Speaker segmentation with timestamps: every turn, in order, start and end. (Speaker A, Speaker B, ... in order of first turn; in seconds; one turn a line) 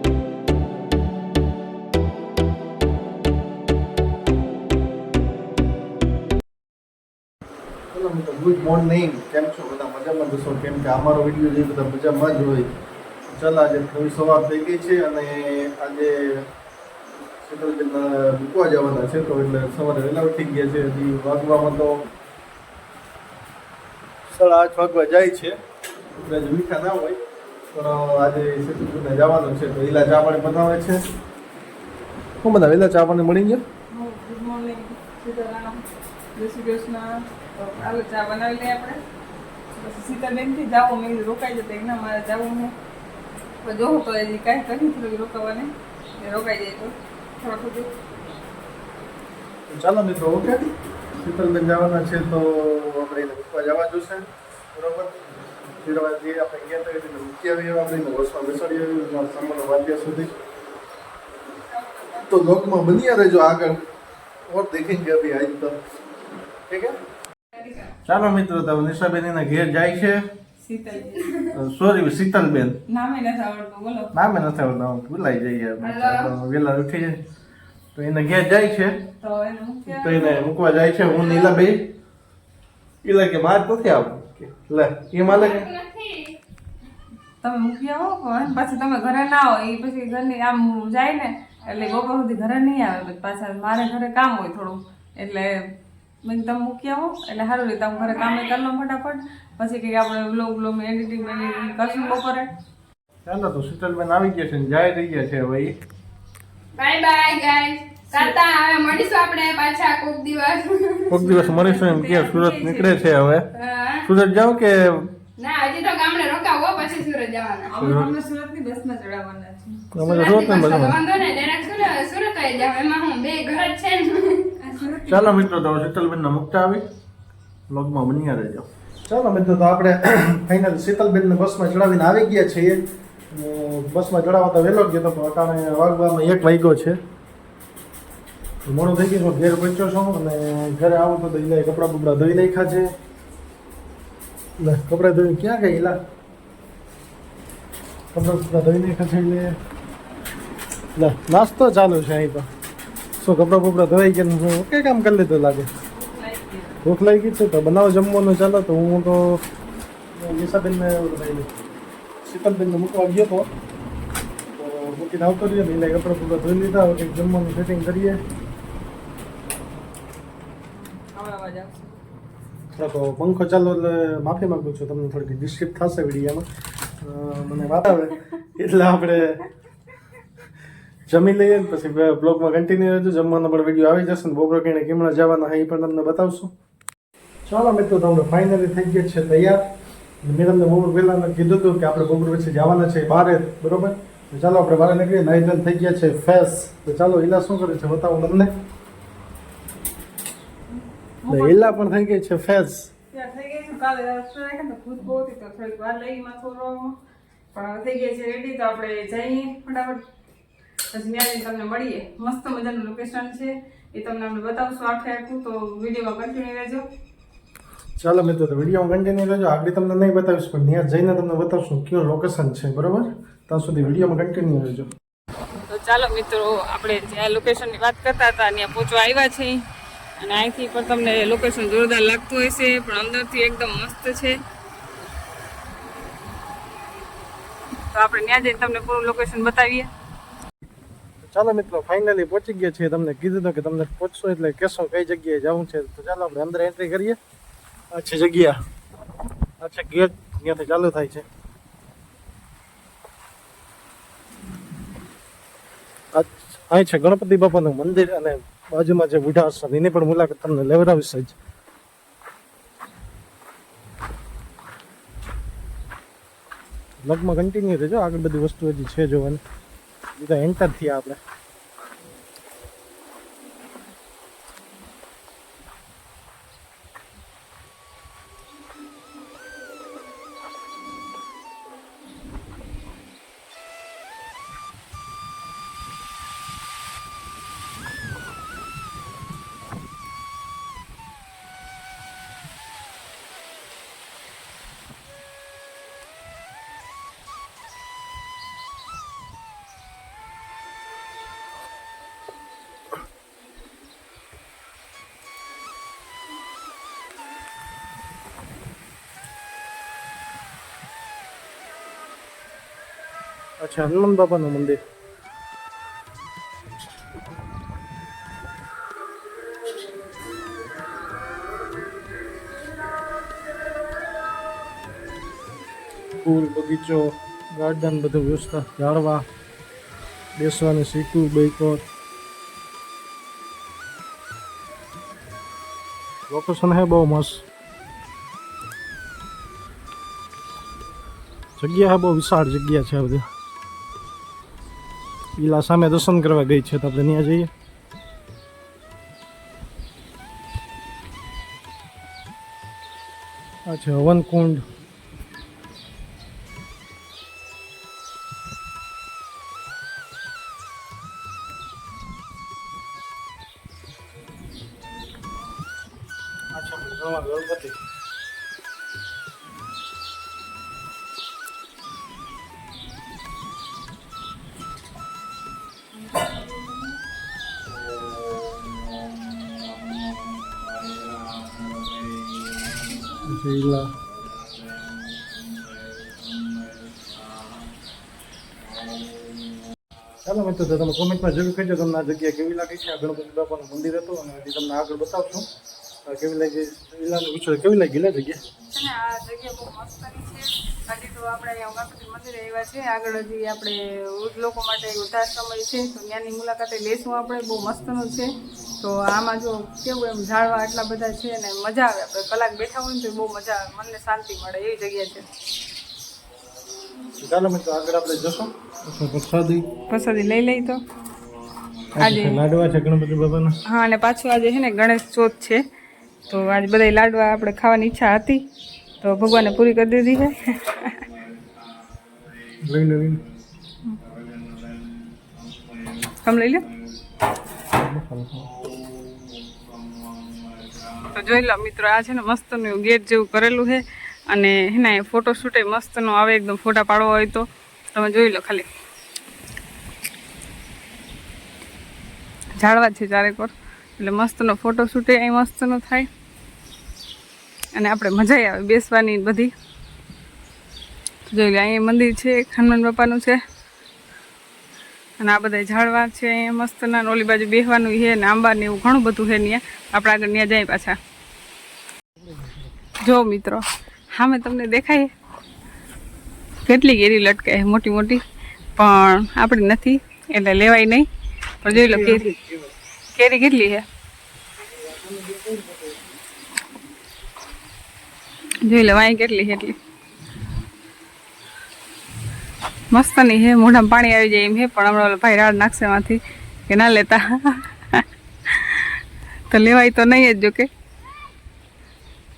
Speaker A: 7.9-12.7
Speaker A: 13.3-16.4
Speaker A: 17.4-22.1
Speaker A: 24.3-25.5
Speaker A: 26.1-27.2
Speaker A: 27.7-31.0
Speaker A: 32.4-33.6
Speaker B: 33.9-39.0
Speaker B: 39.7-42.7
Speaker B: 43.6-47.9
Speaker A: 49.7-50.6
Speaker A: 51.2-55.1
Speaker A: 55.8-60.3
Speaker B: 61.8-62.1
Speaker A: 62.1-63.8
Speaker A: 64.5-65.8
Speaker A: 66.7-67.0
Speaker C: 67.6-67.9
Speaker A: 68.0-70.2
Speaker B: 70.6-71.2
Speaker C: 71.1-71.5
Speaker A: 71.5-72.8
Speaker B: 72.9-74.1
Speaker A: 74.1-77.2
Speaker C: 75.8-76.3
Speaker A: 77.9-78.9
Speaker B: 79.2-80.4
Speaker A: 79.9-81.9
Speaker C: 81.1-81.6
Speaker A: 83.0-85.7
Speaker C: 85.2-86.3
Speaker B: 87.4-95.7
Speaker B: 96.2-102.5
Speaker C: 98.1-98.5
Speaker C: 101.4-102.1
Speaker A: 103.2-105.7
Speaker C: 106.8-111.3
Speaker A: 111.1-113.4
Speaker B: 111.1-113.0
Speaker C: 113.5-114.1
Speaker A: 114.0-115.0
Speaker C: 115.4-117.8
Speaker B: 117.7-119.9
Speaker A: 117.8-118.1
Speaker A: 119.9-121.0
Speaker C: 120.0-124.5
Speaker B: 124.6-125.5
Speaker A: 125.1-126.8
Speaker A: 127.7-137.0
Speaker A: 138.6-142.9
Speaker A: 144.6-146.0
Speaker A: 148.1-149.6
Speaker A: 150.9-152.5
Speaker A: 153.2-155.7
Speaker B: 155.9-156.8
Speaker A: 156.8-159.4
Speaker A: 160.1-161.5
Speaker A: 162.2-163.5
Speaker A: 164.6-168.2
Speaker B: 170.7-172.0
Speaker A: 172.8-176.5
Speaker A: 177.0-179.4
Speaker A: 181.1-186.5
Speaker A: 187.4-189.6
Speaker A: 190.2-198.5
Speaker B: 201.2-201.8
Speaker A: 201.3-202.9
Speaker B: 203.1-207.0
Speaker B: 207.5-210.0
Speaker B: 210.9-216.8
Speaker A: 218.0-224.9
Speaker B: 225.7-229.6
Speaker B: 230.2-234.4
Speaker B: 237.9-239.9
Speaker A: 241.2-247.2
Speaker A: 247.9-248.6
Speaker A: 249.6-251.2
Speaker A: 256.1-261.3
Speaker A: 267.0-269.4
Speaker A: 270.2-271.2
Speaker A: 313.6-314.8
Speaker A: 326.2-329.2
Speaker A: 330.4-331.9
Speaker A: 336.3-337.4
Speaker A: 341.6-343.2
Speaker A: 345.4-347.5
Speaker A: 353.7-354.6
Speaker A: 366.5-367.8
Speaker B: 376.1-376.8
Speaker A: 383.2-383.9
Speaker A: 390.2-395.4
Speaker A: 396.1-398.4
Speaker B: 398.7-415.2
Speaker A: 417.2-419.7
Speaker B: 419.9-420.8
Speaker A: 422.0-423.5
Speaker B: 422.0-422.4
Speaker B: 423.6-425.6
Speaker B: 426.3-428.4
Speaker B: 429.0-431.0
Speaker A: 432.6-433.2
Speaker B: 436.1-436.7
Speaker A: 437.7-438.6
Speaker B: 441.0-448.7
Speaker B: 452.6-456.1
Speaker B: 457.7-459.5
Speaker B: 461.3-463.4
Speaker B: 465.2-471.0
Speaker A: 472.3-472.7
Speaker B: 473.0-475.1
Speaker B: 476.6-478.2
Speaker B: 478.8-481.1
Speaker B: 481.6-482.2
Speaker A: 481.7-482.7
Speaker B: 483.1-483.8
Speaker A: 484.6-486.1
Speaker B: 488.6-489.8
Speaker B: 492.9-498.9
Speaker B: 499.5-500.7